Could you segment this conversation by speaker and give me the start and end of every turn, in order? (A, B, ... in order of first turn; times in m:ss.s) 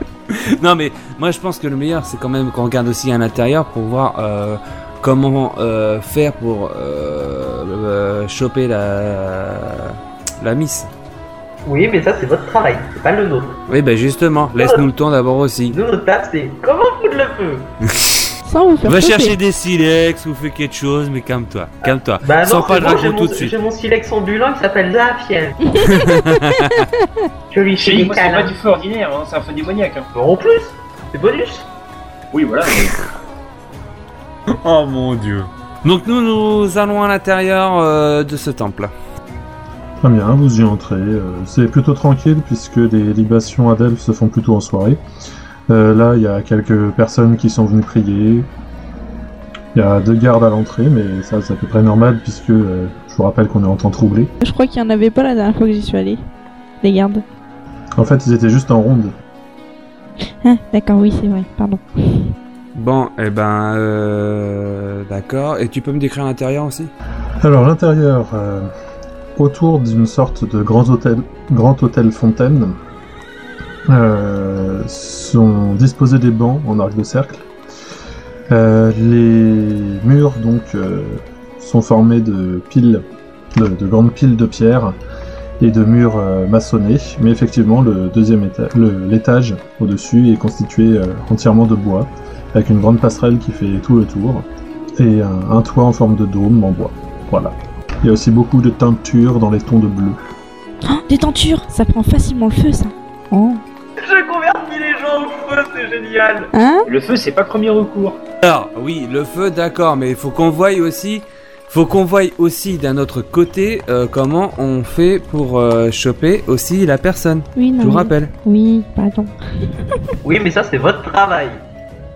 0:00.3-0:10.9 A
0:11.7-0:13.6 B
0:13.7-0:15.8 A
0:14.6-0:14.9 B
0:15.7-0:17.7 B
0:17.8-0:18.3 A
0:18.4-0:19.3 C
0:18.9-0:23.5 A
0:22.2-0:25.6 B
0:25.7-0:26.8 C
0:25.8-0:26.9 A
0:27.5-0:28.6 B
0:27.8-0:30.1 D
0:30.2-0:31.7 B
0:32.3-0:33.0 D
0:34.5-0:38.9 A
0:40.0-0:45.0 E
0:45.7-0:48.5 E
0:49.7-0:54.3 E
0:54.4-0:56.2 C
0:56.8-0:57.2 C
0:58.0-0:59.1 E
1:00.4-1:02.3 C
1:02.8-1:06.9 A
1:07.4-1:08.7 E
1:09.4-1:12.8 E
1:13.9-1:17.5 E
1:18.5-1:23.0 E
1:23.6-1:25.0 E
1:25.6-1:34.5 E
1:35.0-1:40.2 E
1:40.9-1:43.6 C
1:44.0-1:46.5 B
1:46.5-1:46.9 C
1:46.9-1:48.2 D
1:48.4-1:58.3 A
1:57.6-1:59.4 C
2:00.2-2:01.6 B